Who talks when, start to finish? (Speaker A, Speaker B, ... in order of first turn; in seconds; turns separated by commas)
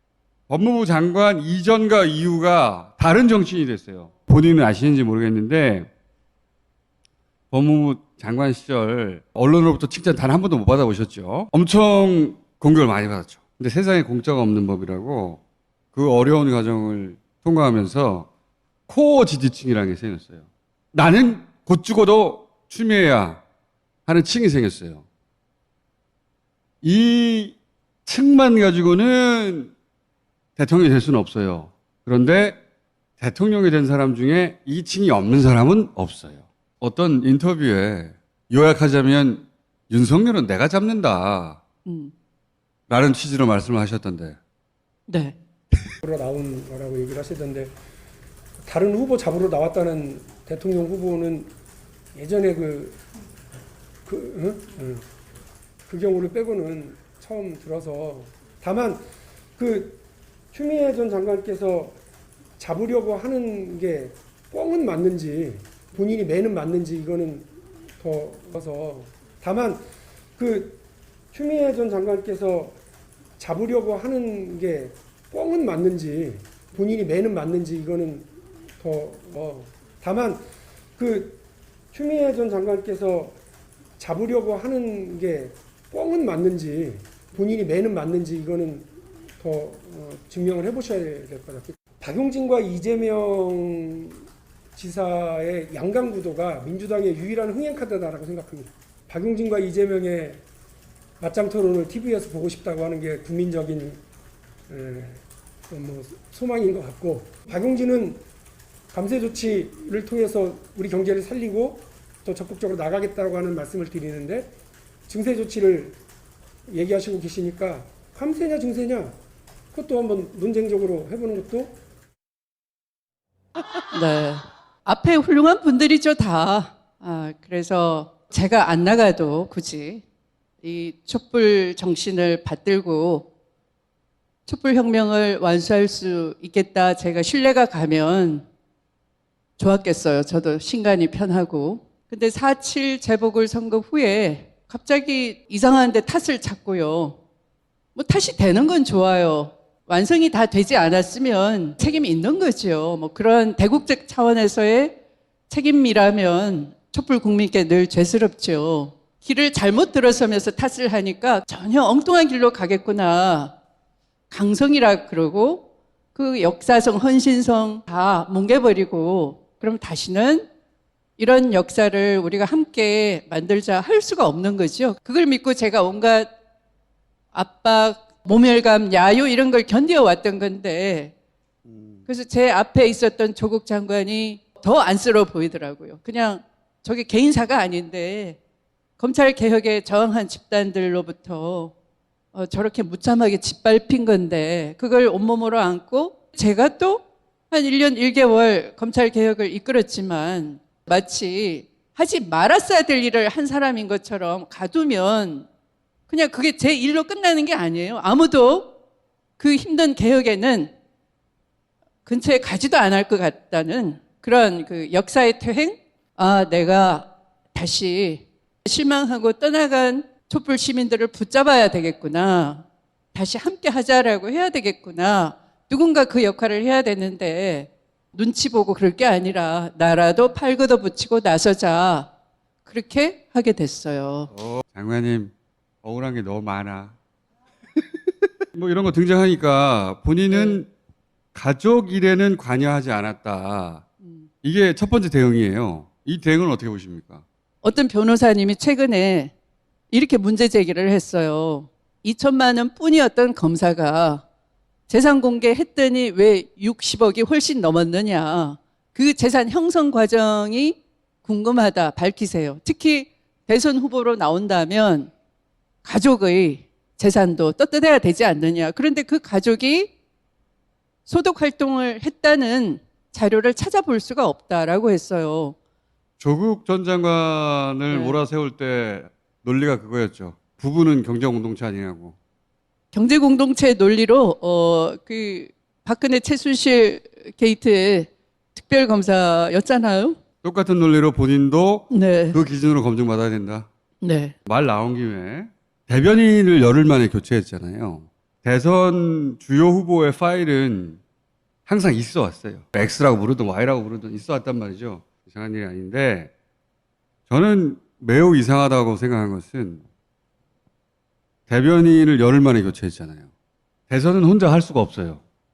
Speaker A: 0.5-5.9, Speaker A: 7.5-15.4, Speaker A: 15.9-18.3, Speaker A: 18.9-23.4, Speaker A: 24.1-25.0, Speaker A: 26.8-29.7, Speaker A: 30.6-32.6, Speaker A: 33.2-41.6, Speaker B: 41.9-42.1, Speaker A: 42.9-44.4, Speaker B: 45.1-45.4, Speaker C: 46.0-47.7, Speaker C: 48.6-51.5, Speaker C: 52.1-53.0, Speaker C: 54.0-55.0, Speaker C: 55.9-59.0, Speaker C: 59.6-60.0, Speaker C: 60.5-62.0, Speaker C: 62.6-69.8, Speaker C: 70.4-70.8, Speaker C: 71.3-72.8, Speaker C: 73.4-80.4, Speaker C: 81.0-81.4, Speaker C: 81.9-83.4, Speaker C: 84.0-100.4, Speaker C: 101.2-104.0, Speaker C: 104.7-108.2, Speaker C: 108.9-114.5, Speaker C: 115.1-116.0, Speaker C: 116.7-119.2, Speaker C: 119.7-121.8, Speaker B: 123.9-130.0, Speaker B: 130.6-133.3, Speaker B: 134.5-138.4, Speaker B: 139.6-147.2, Speaker B: 147.9-155.0, Speaker B: 155.5-163.5, Speaker B: 164.3-170.5, Speaker B: 171.2-176.3, Speaker B: 177.3-181.1, Speaker B: 182.1-188.4, Speaker B: 189.0-191.7, Speaker B: 192.3-205.5, Speaker B: 206.1-208.8, Speaker B: 209.4-210.7, Speaker B: 212.1-232.1, Speaker B: 232.7-234.3, Speaker A: 234.3-235.3, Speaker A: 235.8-236.9, Speaker A: 238.5-240.7, Speaker B: 240.3-240.6, Speaker A: 241.3-243.8, Speaker B: 244.0-244.3, Speaker A: 244.4-247.2, Speaker B: 247.6-249.3, Speaker B: 249.9-254.2, Speaker B: 254.9-265.1, Speaker B: 265.8-269.9, Speaker B: 271.1-275.6, Speaker A: 276.2-282.1, Speaker B: 277.9-278.2, Speaker B: 282.9-290.2, Speaker A: 290.4-293.7, Speaker B: 291.9-292.4, Speaker B: 294.0-294.3, Speaker A: 294.4-301.0, Speaker A: 301.7-306.3, Speaker A: 307.3-309.8, Speaker A: 311.5-313.3, Speaker A: 313.9-315.2